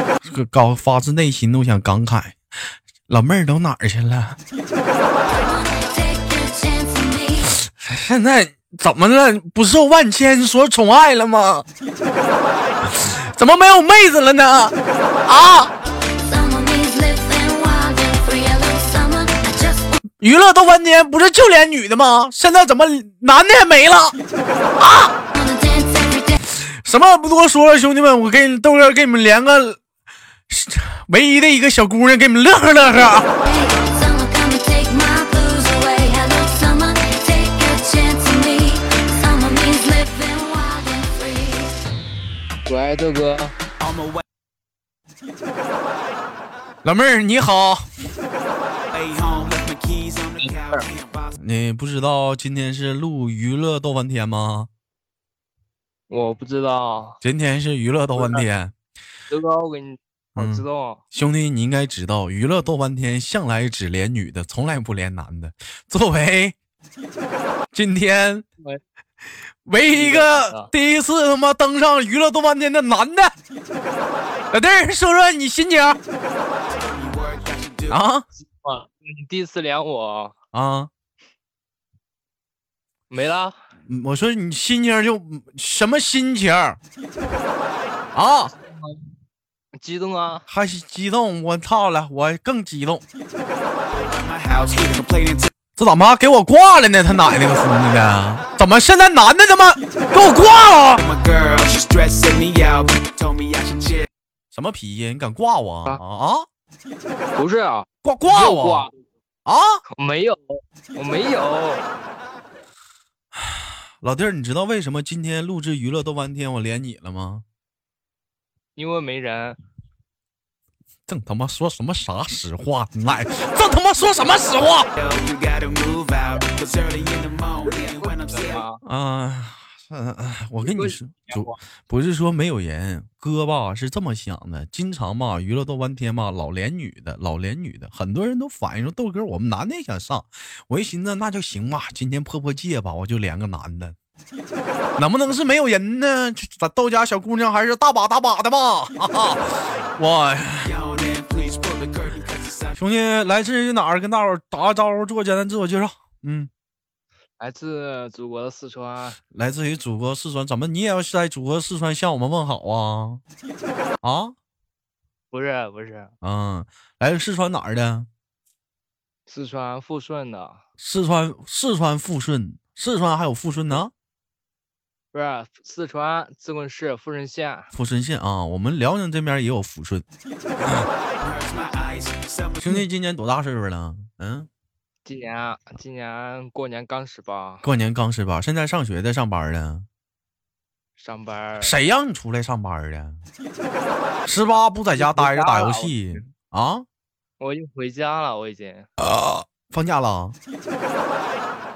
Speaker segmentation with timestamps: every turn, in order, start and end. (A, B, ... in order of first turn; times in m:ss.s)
0:00.2-0:02.4 A
0:03.1-0:04.4 A
0:05.3-0:07.5 B
0:07.5-0:11.7 A
0:12.8-0:14.7 A
0:15.3-0:15.7 A
0:16.2-0:20.0 B
0:20.2-0:24.2 A
0:24.8-0:25.1 A
0:25.3-0:26.4 B
0:26.4-0:29.8 A
0:30.5-0:33.3 A
0:33.4-0:41.8 B
0:42.7-0:43.6 C
0:46.8-0:47.9 A
0:48.9-0:51.1 D
0:50.4-0:50.9 C
0:51.4-0:54.7 A
0:56.1-0:57.2 C
0:57.2-0:58.7 A
0:58.2-0:58.4 C
0:59.3-1:01.0 C
1:00.4-1:06.6 A
1:07.7-1:08.5 A
1:09.7-1:13.3 A
1:09.9-1:10.7 C
1:14.5-1:16.0 A
1:17.0-1:17.9 D
1:17.9-1:18.3 A
1:18.4-1:20.4 C
1:20.5-1:20.9 A
1:23.1-1:23.6 C
1:23.9-1:26.8 A
1:28.2-1:28.5 A
1:28.5-1:29.1 C
1:29.8-1:30.5 C
1:30.5-1:33.0 A
1:34.1-1:35.5 D
1:35.8-1:41.1 A
1:41.1-1:44.1 D
1:44.5-1:46.5 A
1:47.4-1:48.9 C
1:48.0-1:48.9 A
1:49.5-1:49.8 A
1:49.9-1:51.9 C
1:53.4-1:57.4 A
1:58.8-1:59.6 C
2:01.1-2:04.9 A
2:05.0-2:07.9 D
2:07.8-2:08.8 C
2:08.8-2:24.0 A
2:10.6-2:11.6 C
2:25.0-2:30.8 A
2:30.8-2:32.6 D
2:32.7-2:36.5 A
2:37.4-2:39.2 C
2:39.3-2:43.2 A
2:44.0-2:44.3 A
2:45.3-2:46.1 C
2:46.2-2:48.1 A
2:49.3-2:50.6 C
2:50.8-2:53.9 A
2:55.1-2:57.7 C
2:57.7-3:00.0 A
3:01.2-3:02.6 D
3:02.6-3:04.5 A
3:05.0-3:07.7 C
3:07.6-3:09.9 A
3:11.0-3:11.8 C
3:11.6-3:13.2 A
3:14.2-3:16.9 A
3:14.9-3:16.2 C
3:17.4-3:18.9 C
3:19.0-3:20.4 A